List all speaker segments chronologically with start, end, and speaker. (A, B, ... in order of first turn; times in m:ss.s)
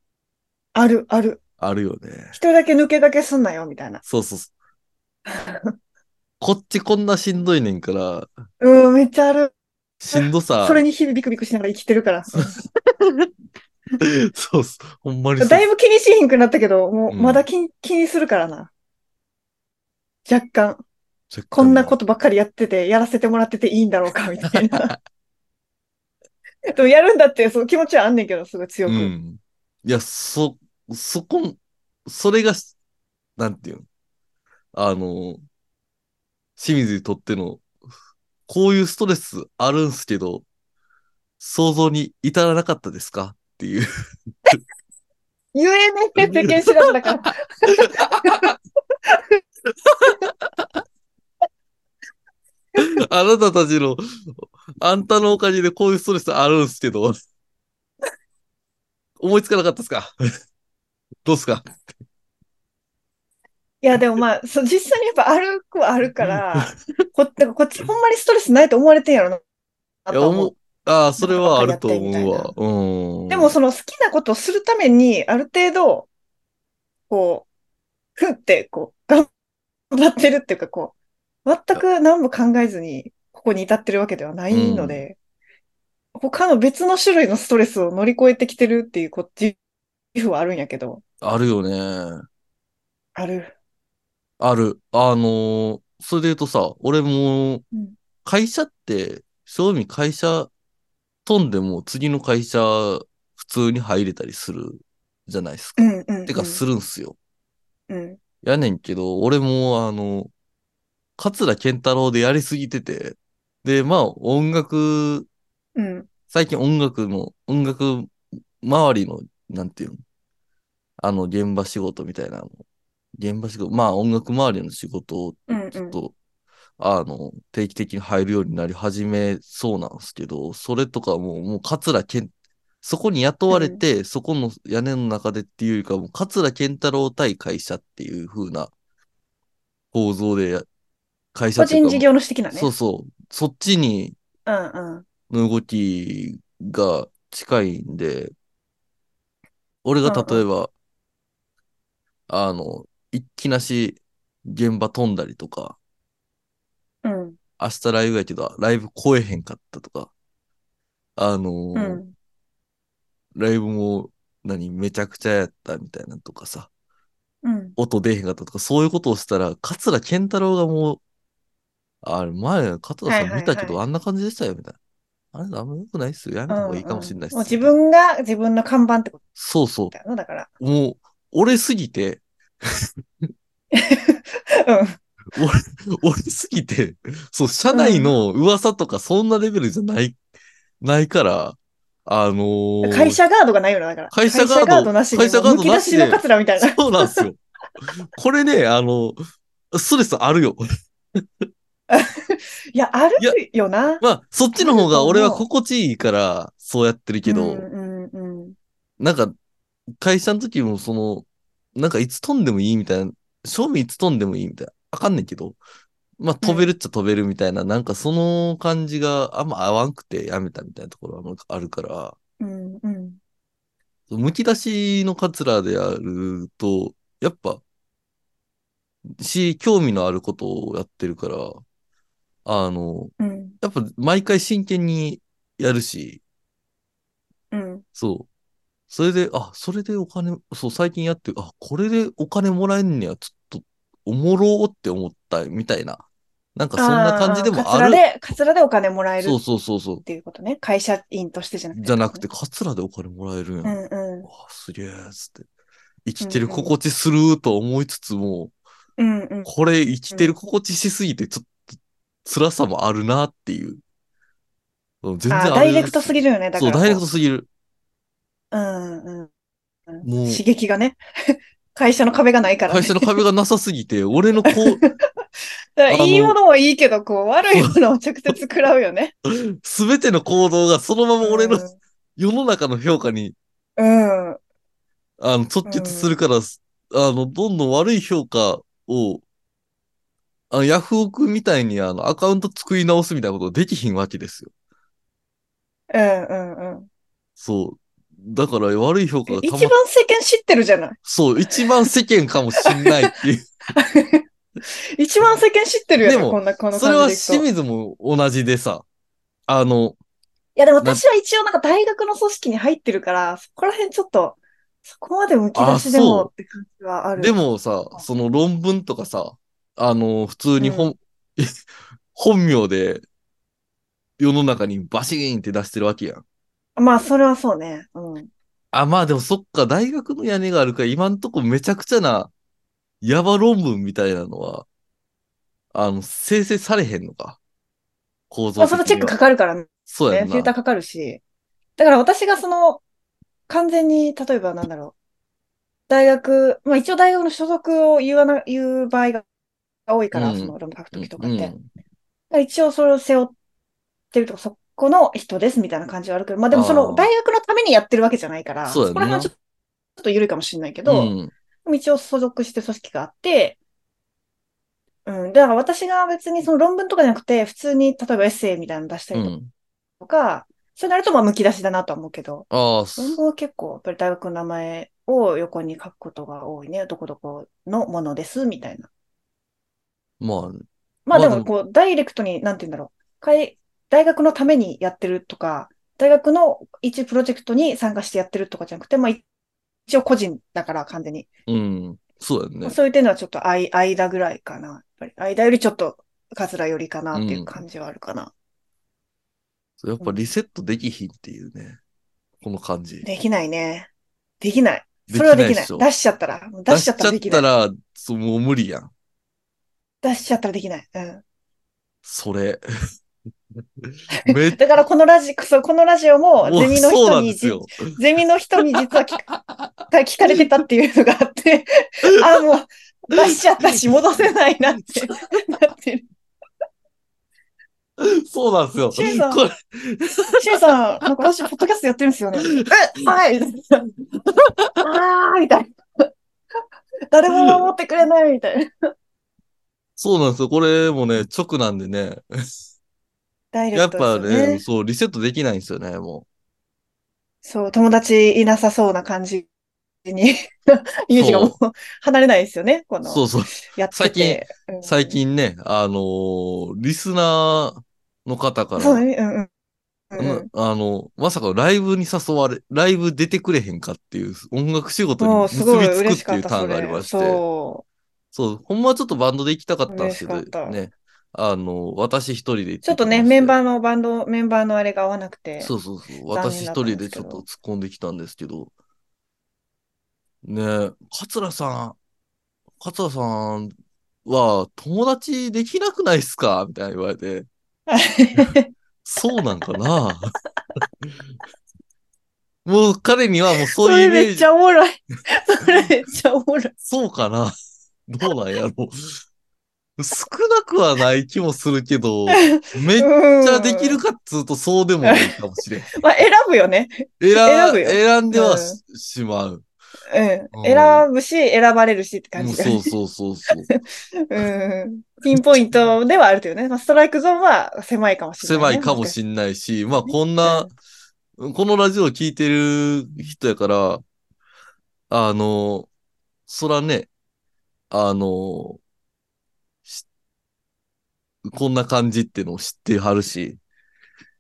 0:00.8-0:01.4 A
0:01.6-0:02.4 B
0:02.3-0:04.0 A
0:04.0-0:04.5 B
0:05.3-0:05.8 A
0:06.4-0:08.3 B
0:08.6-0:09.5 A
0:10.0-0:10.8 B
0:10.1-0:12.6 A
0:14.0-0:15.6 B
0:15.4-0:18.7 A
0:17.1-0:17.4 B
0:20.3-0:20.8 A
0:21.3-0:22.0 B
0:21.5-0:24.9 A
0:24.5-0:24.9 B
0:26.7-0:29.1 A
0:28.9-0:32.7 B
0:33.4-0:33.9 B
0:34.7-0:35.4 B
0:36.6-0:37.7 B
0:38.5-0:40.5 B
0:41.4-0:43.9 B
0:45.5-0:48.5 A
0:46.2-0:48.6 B
0:49.1-0:49.4 A
0:49.9-0:50.7 B
0:52.8-0:57.2 B
0:59.2-1:00.1 B
1:01.2-1:01.7 B
1:03.8-1:09.4 A
1:10.1-1:10.5 A
1:10.1-1:13.5 B
1:11.2-1:12.5 A
1:13.3-1:16.1 A
1:17.1-1:17.5 A
1:18.2-1:19.3 A
1:19.9-1:20.9 A
1:21.4-1:25.2 A
1:24.5-1:25.0 B
1:26.2-1:29.6 A
1:30.1-1:31.0 A
1:31.2-1:32.2 B
1:33.2-1:33.5 A
1:34.4-1:37.6 B
1:38.2-1:40.5 B
1:41.2-1:47.2 B
1:45.8-1:46.6 A
1:47.9-1:48.2 A
1:48.4-1:50.3 B
1:51.2-1:55.3 B
1:55.8-1:56.1 A
1:56.3-2:00.0 B
2:01.0-2:02.6 B
2:03.2-2:06.1 B
2:05.5-2:06.0 A
2:06.8-2:12.3 B
2:12.8-2:18.7 B
2:13.5-2:13.8 A
2:19.9-2:20.7 B
2:21.3-2:24.2 B
2:21.6-2:22.7 A
2:24.5-2:25.0 A
2:25.3-2:28.3 B
2:29.8-2:30.7 B
2:30.0-2:30.4 A
2:32.3-2:35.8 B
2:37.0-2:37.4 A
2:37.6-2:40.1 B
2:41.2-2:42.0 B
2:41.8-2:42.1 A
2:43.4-2:46.7 B
2:47.4-2:47.8 A
2:47.8-2:51.0 B
2:52.0-2:54.8 B
2:53.1-2:53.8 A
2:55.3-2:57.7 B
2:56.5-2:59.2 A
2:59.4-2:59.9 B
2:59.9-3:00.5 A
3:00.6-3:02.9 B
3:03.7-3:05.0 A
3:05.3-3:10.2 B
3:07.7-3:08.1 A
3:10.8-3:13.2 B
3:12.8-3:17.2 A
3:14.1-3:17.4 B
3:18.1-3:19.2 B
3:19.7-3:20.6 B
3:21.2-3:21.4 B
3:21.9-3:24.0 A
3:24.0-3:27.7 B
3:24.6-3:25.4 A
3:27.3-3:28.6 A
3:29.0-3:29.3 B
3:30.0-3:35.6 B
3:36.2-3:42.2 B
3:36.4-3:36.7 A
3:42.4-3:43.2 A
3:44.1-3:47.6 B
3:49.2-3:51.6 B
3:52.4-3:56.2 B
3:53.2-3:53.6 A
3:57.5-3:57.8 A
3:58.0-3:58.3 B
3:58.9-4:06.0 B
4:06.6-4:08.0 B
4:06.8-4:09.4 A
4:09.2-4:10.0 B
4:10.0-4:12.2 A
4:11.8-4:15.5 B
4:13.6-4:14.3 A
4:16.0-4:18.5 B
4:16.2-4:16.7 A
4:19.0-4:19.5 A
4:19.5-4:21.6 B
4:22.2-4:23.8 B
4:25.0-4:27.5 B
4:25.3-4:27.0 A
4:28.5-4:29.3 A
4:29.9-4:33.1 A
4:30.0-4:30.4 B
4:32.7-4:34.8 B
4:34.4-4:34.9 A
4:35.8-4:39.1 A
4:35.9-4:36.4 B
4:39.3-4:41.7 B
4:41.2-4:41.8 A
4:42.2-4:43.4 B
4:43.8-4:44.4 A
4:45.2-4:49.2 B
4:45.7-4:46.2 A
4:50.5-4:54.5 B
4:55.9-4:56.9 A
4:57.4-4:59.7 B
4:59.3-5:01.0 A
5:01.1-5:03.4 B
5:02.6-5:03.1 A
5:03.8-5:04.3 A
5:05.0-5:07.5 A
5:06.0-5:08.8 B
5:09.5-5:10.0 B
5:10.6-5:17.4 A
5:15.6-5:16.3 B
5:17.2-5:21.5 B
5:20.6-5:20.9 A
5:22.2-5:23.0 B
5:24.2-5:26.2 B
5:26.8-5:28.3 A
5:28.7-5:32.3 B
5:33.0-5:34.7 B
5:35.7-5:37.4 B
5:38.3-5:39.2 B
5:38.6-5:41.2 A
5:39.9-5:40.5 B
5:41.8-5:42.8 A
5:43.5-5:45.0 A
5:45.9-5:49.2 A
5:49.9-5:51.5 A
5:50.1-5:51.6 B
5:52.3-5:53.3 A
5:54.1-5:59.4 A
5:56.5-5:57.1 B
5:58.6-5:59.3 B
6:00.0-6:01.1 A
6:00.9-6:01.3 B
6:01.6-6:03.6 A
6:05.1-6:09.3 A
6:09.1-6:09.5 B
6:10.0-6:18.9 A
6:12.5-6:13.2 B
6:20.2-6:20.6 B
6:21.1-6:29.2 A
6:21.1-6:21.5 B
6:29.9-6:31.3 A
6:31.5-6:32.8 B
6:32.6-6:38.3 A
6:37.1-6:37.6 B
6:39.8-6:41.8 B
6:40.0-6:40.2 A
6:42.4-6:43.1 B
6:43.0-6:43.9 A
6:44.4-6:47.4 A
6:45.1-6:45.9 B
6:46.7-6:48.9 B
6:50.0-6:51.2 A
6:52.0-6:52.6 B
6:53.8-6:54.6 B
6:54.2-6:59.2 A
6:56.4-6:57.9 B
6:59.3-6:59.7 B
6:59.9-7:06.1 A
7:03.2-7:04.0 B
7:04.8-7:05.1 B
7:08.0-7:10.6 B
7:08.9-7:09.4 A
7:10.4-7:13.9 A
7:14.8-7:16.1 A
7:17.1-7:18.7 A
7:20.0-7:22.2 B
7:23.5-7:24.6 A
7:23.7-7:26.3 B
7:27.4-7:29.5 A
7:30.1-7:35.2 A
7:31.1-7:31.6 B
7:33.0-7:39.0 B
7:38.8-7:39.5 A
7:40.1-7:40.5 A
7:40.2-7:47.4 B
7:45.2-7:47.8 A
7:48.3-7:53.6 B
7:49.9-7:50.8 A
7:52.8-7:55.7 A
7:55.6-7:58.7 B
7:56.3-7:57.4 A
8:00.4-8:02.0 B
8:02.8-8:03.7 B
8:04.2-8:07.5 B
8:07.9-8:08.7 A
8:09.0-8:10.3 B
8:12.6-8:14.5 B
8:13.8-8:16.7 A
8:16.9-8:17.5 B
8:18.1-8:19.2 B
8:20.0-8:25.9 B
8:22.3-8:24.0 A
8:25.0-8:25.4 A
8:26.0-8:28.8 A
8:27.2-8:29.6 B
8:30.1-8:32.9 A
8:30.5-8:31.0 B
8:32.4-8:33.7 B
8:33.7-8:39.2 A
8:35.3-8:35.6 B
8:38.4-8:40.7 B
8:40.1-8:40.7 A
8:41.4-8:44.0 B
8:45.1-8:45.9 B
8:46.5-8:47.1 B
8:47.9-8:48.8 B
8:51.4-8:53.6 B